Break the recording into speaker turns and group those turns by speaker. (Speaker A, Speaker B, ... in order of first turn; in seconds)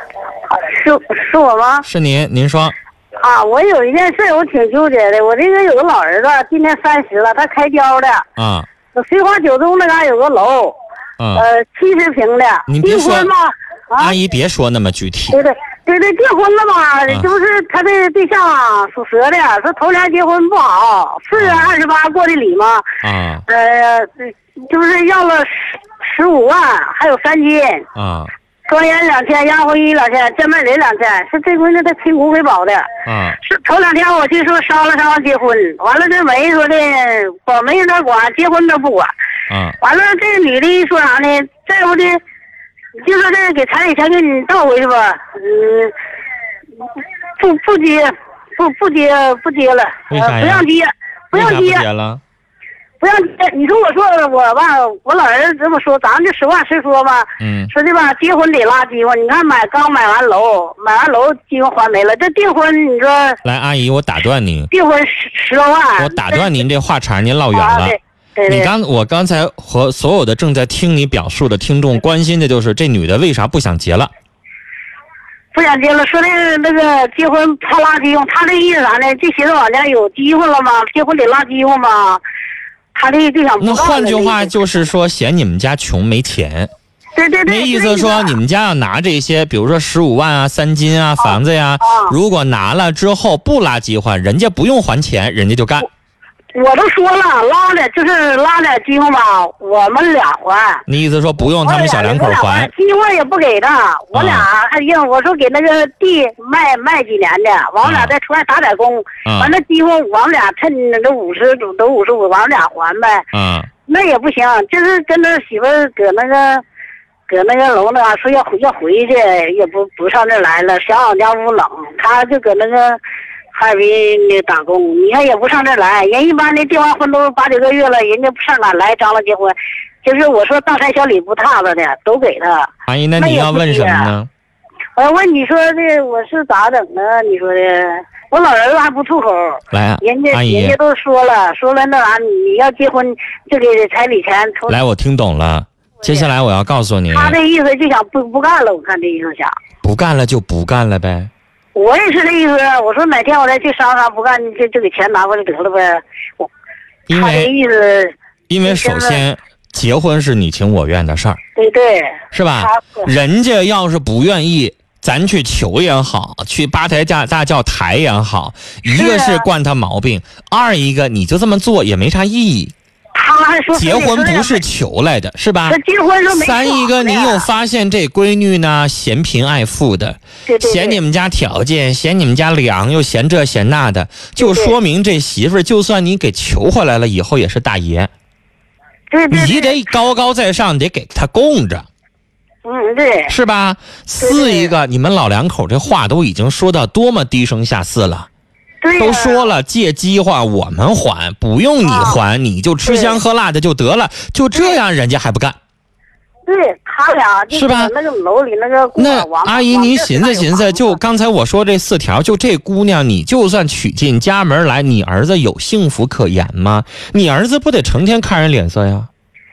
Speaker A: 0.5-1.9, 3.2-8.2, 8.9-10.8, 11.4-14.2, 15.3-22.9, 23.5-27.9, 28.7-39.1, 39.8-42.2, 43.0-45.9, 47.4-51.9, 53.0-63.4, 64.7-66.6, 67.5-68.7, 75.5-82.2, 83.0-84.6, 87.1-88.4, 91.2-92.1, 96.5-100.8, 101.4-113.2, 113.9-116.6, 117.3-123.0, 123.5-134.1, 135.0-144.8, 146.0-146.3, 147.1-149.5, 151.8-156.5, 157.1-158.1, 158.7-159.2, 161.6-163.1, 168.9-169.5, 173.2-174.6, 175.7-177.5, 180.5-181.0, 184.4-184.8, 189.1-189.8, 192.7-193.3, 194.2-194.7, 198.8-199.5, 201.8-202.2, 202.8-203.2, 206.5-211.0
Speaker B: 1.8-2.7, 8.4-8.7, 11.2-11.4, 12.7-13.3, 14.0-15.4, 21.3-21.7, 23.0-23.4, 28.0-28.3, 33.0-33.4, 39.5-39.8, 50.1-50.7, 51.3-52.2, 57.4-57.7, 63.5-64.7, 66.0-74.1, 83.6-86.7, 87.5-95.9, 100.9-102.7, 104.1-104.5, 107.8-108.1, 109.2-109.5, 113.3-113.7, 132.8-134.3, 139.7-140.8, 144.7-147.4, 149.8-151.3, 157.1-157.5, 158.5-161.4, 162.3-172.7, 173.7-175.8, 176.3-188.1, 189.3-191.9, 193.3-198.3, 199.0-205.6, 207.5-207.9, 209.0-219.1